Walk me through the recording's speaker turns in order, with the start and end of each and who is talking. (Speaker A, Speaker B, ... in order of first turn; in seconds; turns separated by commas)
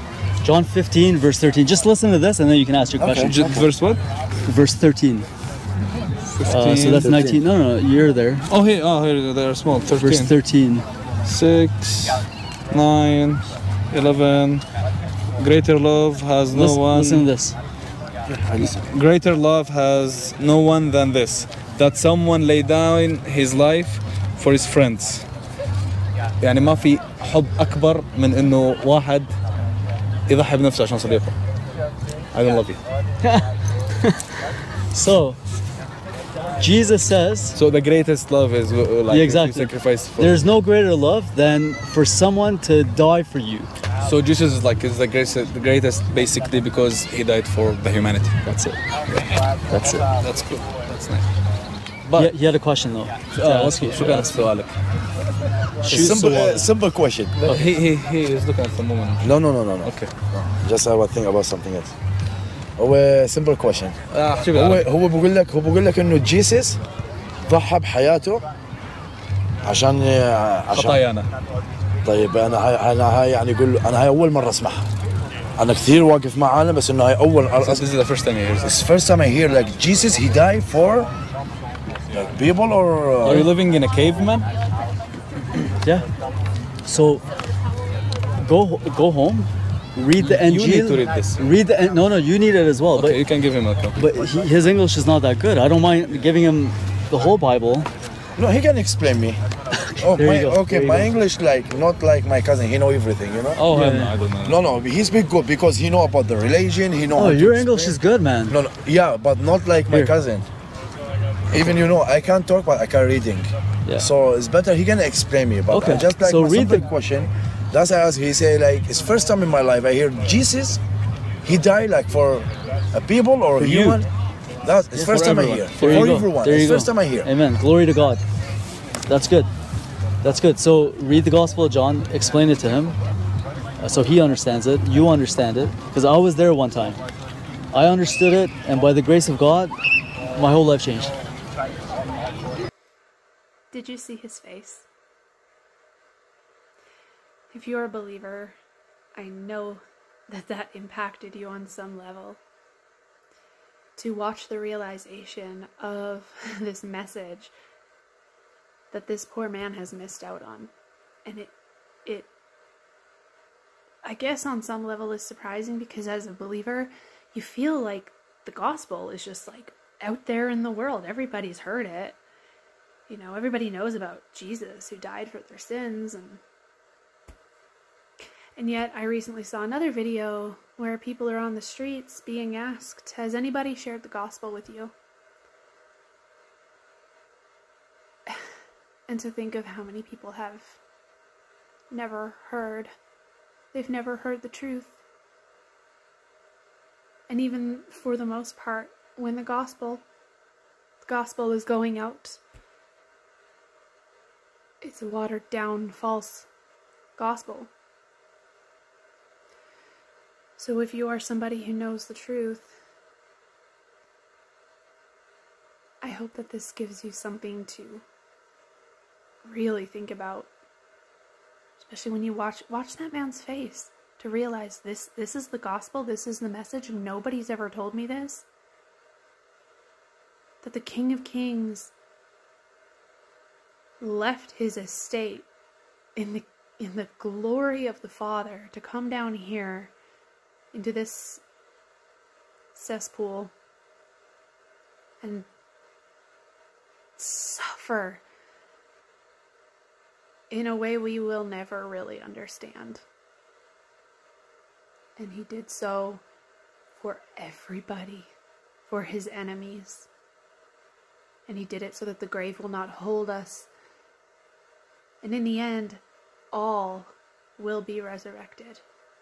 Speaker A: 0.4-3.4, Speaker B: 3.0-3.7, Speaker C: 3.2-4.0, Speaker A: 4.5-5.3, Speaker C: 6.2-7.1, Speaker A: 6.5-8.4, Speaker B: 7.0-7.4, Speaker C: 8.5-10.3, Speaker A: 9.9-10.8, Speaker C: 11.2-14.7, Speaker C: 15.4-17.3, Speaker A: 16.5-17.6, Speaker B: 18.3-18.9, Speaker C: 18.6-25.3, Speaker C: 26.4-29.3, Speaker C: 30.3-31.4, Speaker C: 32.3-32.8, Speaker A: 33.2-35.4, Speaker A: 36.6-37.6, Speaker C: 37.5-40.5, Speaker A: 39.1-43.7, Speaker C: 44.0-48.4, Speaker A: 48.5-48.8, Speaker A: 49.7-50.1, Speaker C: 50.1-51.3, Speaker C: 52.0-52.3, Speaker A: 52.1-54.4, Speaker C: 53.3-54.8, Speaker A: 55.8-56.7, Speaker B: 55.8-57.4, Speaker C: 57.4-59.3, Speaker B: 59.2-61.9, Speaker C: 59.8-60.1, Speaker B: 62.8-63.9, Speaker C: 64.1-64.8, Speaker B: 64.5-66.8, Speaker B: 67.5-68.4, Speaker B: 69.6-71.0, Speaker C: 70.7-71.3, Speaker B: 72.0-74.9, Speaker B: 75.6-77.9, Speaker C: 77.6-78.8, Speaker B: 78.6-81.1, Speaker B: 82.1-83.5, Speaker C: 83.2-84.5, Speaker A: 83.2-83.5, Speaker A: 85.8-86.1, Speaker A: 86.8-87.2, Speaker A: 88.4-93.2, Speaker C: 90.2-91.5, Speaker C: 92.9-94.0, Speaker A: 94.0-97.9, Speaker B: 98.4-99.4, Speaker A: 99.8-101.1, Speaker B: 100.0-103.6, Speaker C: 103.6-104.6, Speaker A: 103.7-104.2, Speaker B: 104.4-108.0, Speaker A: 107.1-108.6, Speaker B: 108.5-110.5, Speaker B: 111.5-120.8, Speaker A: 115.7-116.9, Speaker B: 121.4-124.1, Speaker A: 123.6-124.0, Speaker B: 124.6-127.3, Speaker A: 124.9-128.2, Speaker A: 129.1-129.5, Speaker A: 130.2-133.0, Speaker A: 133.8-137.0, Speaker A: 137.7-139.7, Speaker A: 140.3-141.2, Speaker D: 143.7-144.9, Speaker D: 147.5-148.6, Speaker D: 149.2-152.4, Speaker D: 154.0-157.5, Speaker D: 158.9-160.7, Speaker D: 161.2-161.5, Speaker D: 164.0-172.2, Speaker D: 173.1-176.4, Speaker D: 178.6-184.9, Speaker D: 189.1-190.8, Speaker D: 191.9-192.9, Speaker D: 193.7-195.0, Speaker D: 197.3-200.0, Speaker D: 201.0-202.4, Speaker D: 204.8-206.5, Speaker D: 207.2-207.7, Speaker D: 210.6-212.8, Speaker D: 216.0-218.0, Speaker D: 219.4-220.5, Speaker D: 221.8-228.5, Speaker D: 230.6-231.9, Speaker D: 234.0-235.5, Speaker D: 236.2-239.9, Speaker D: 240.7-241.4, Speaker D: 242.7-243.5, Speaker D: 245.2-245.5, Speaker D: 247.2-248.2, Speaker D: 250.5-253.0, Speaker D: 255.2-256.2, Speaker D: 257.0-258.3, Speaker D: 258.9-260.1, Speaker D: 261.5-263.7, Speaker D: 265.2-266.0, Speaker D: 266.5-268.8